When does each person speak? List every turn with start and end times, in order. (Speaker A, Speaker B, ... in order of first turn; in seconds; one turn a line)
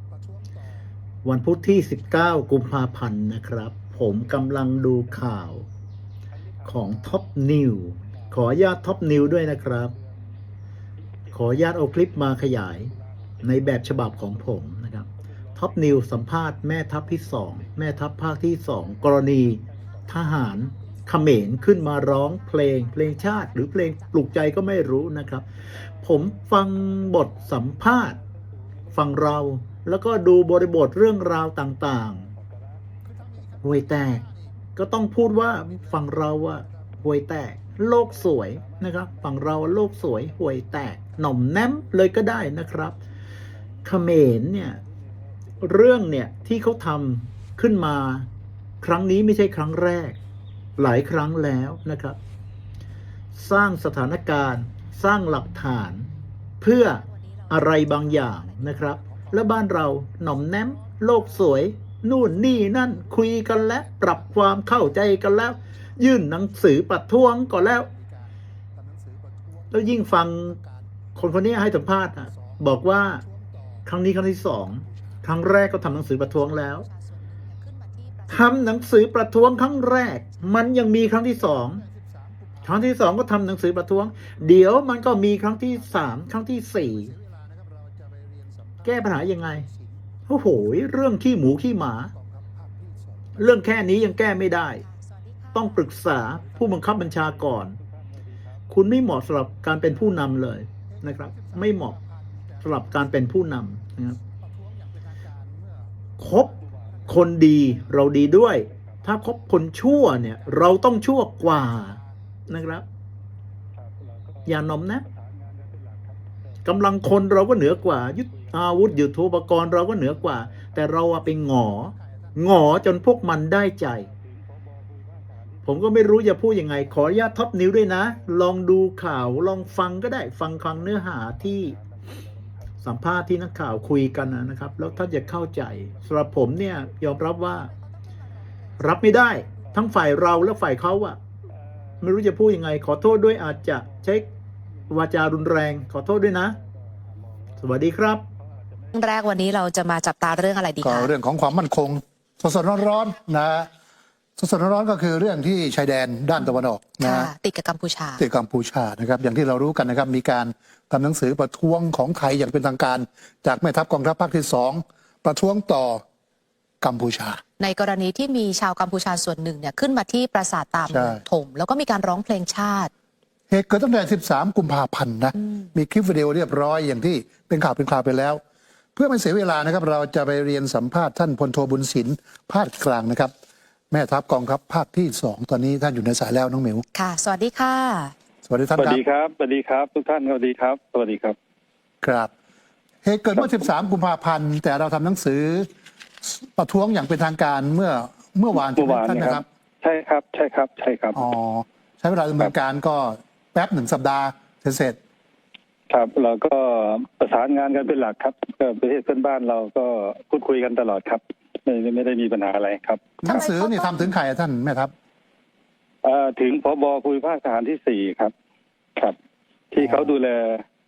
Speaker A: 0.1-0.6
Speaker B: 1.2-5.7
Speaker B: 6.7-9.9
Speaker B: 11.3-25.5
Speaker C: 22.3-24.2
Speaker B: 26.0-28.2
Speaker B: 28.9-32.3
Speaker A: 33.0-34.5
Speaker B: 33.6-43.0
Speaker A: 35.5-36.9
Speaker B: 43.9-44.8
Speaker B: 45.6-48.3
Speaker B: 48.8-50.2
Speaker B: 50.8-52.2
Speaker B: 53.4-67.9
Speaker C: 56.8-58.8
Speaker A: 59.0-59.5
Speaker A: 60.4-61.5
Speaker A: 62.4-65.5
Speaker A: 67.5-71.2
Speaker B: 69.7-70.6
Speaker B: 71.2-73.2
Speaker A: 72.2-72.6
Speaker A: 73.2-73.9
Speaker B: 73.9-76.8
Speaker C: 76.3-78.6
Speaker B: 78.3-81.8
Speaker A: 81.2-83.1
Speaker B: 82.7-87.1
Speaker A: 85.7-86.2
Speaker A: 86.8-91.1
Speaker B: 88.8-89.7
Speaker B: 90.3-92.1
Speaker A: 92.1-93.5
Speaker B: 93.4-94.8
Speaker C: 94.7-95.8
Speaker B: 95.5-97.8
Speaker A: 96.3-97.5
Speaker B: 98.7-102.0
Speaker A: 100.1-103.4
Speaker B: 102.6-104.2
Speaker A: 104.2-107.8
Speaker B: 106.2-106.5
Speaker B: 107.1-112.9
Speaker A: 110.3-110.7
Speaker A: 111.4-112.0
Speaker D: 113.8-116.2
Speaker B: 114.5-115.1
Speaker B: 116.7-124.1
Speaker A: 121.1-123.0
Speaker D: 124.2-125.7
Speaker B: 125.7-131.8
Speaker B: 132.8-137.7
Speaker B: 138.8-141.2
Speaker B: 142.0-144.3
Speaker B: 144.9-146.6
Speaker B: 147.6-148.2
Speaker C: 148.9-151.1
Speaker A: 150.8-153.7
Speaker A: 154.4-157.3
Speaker C: 157.0-158.2
Speaker A: 158.2-166.0
Speaker A: 166.8-167.4
Speaker C: 167.6-172.9
Speaker A: 170.9-171.2
Speaker A: 173.5-178.4
Speaker A: 179.0-183.3
Speaker A: 183.9-186.8
Speaker C: 186.9-188.1
Speaker A: 188.5-189.0
Speaker D: 188.8-191.4
Speaker A: 192.0-192.3
Speaker A: 193.0-195.7
Speaker A: 196.2-199.5
Speaker D: 198.6-201.2
Speaker A: 201.2-205.0
Speaker D: 205.9-213.2
Speaker A: 213.2-214.9
Speaker C: 213.2-214.1
Speaker D: 216.0-218.3
Speaker D: 219.7-220.6
Speaker A: 219.8-220.1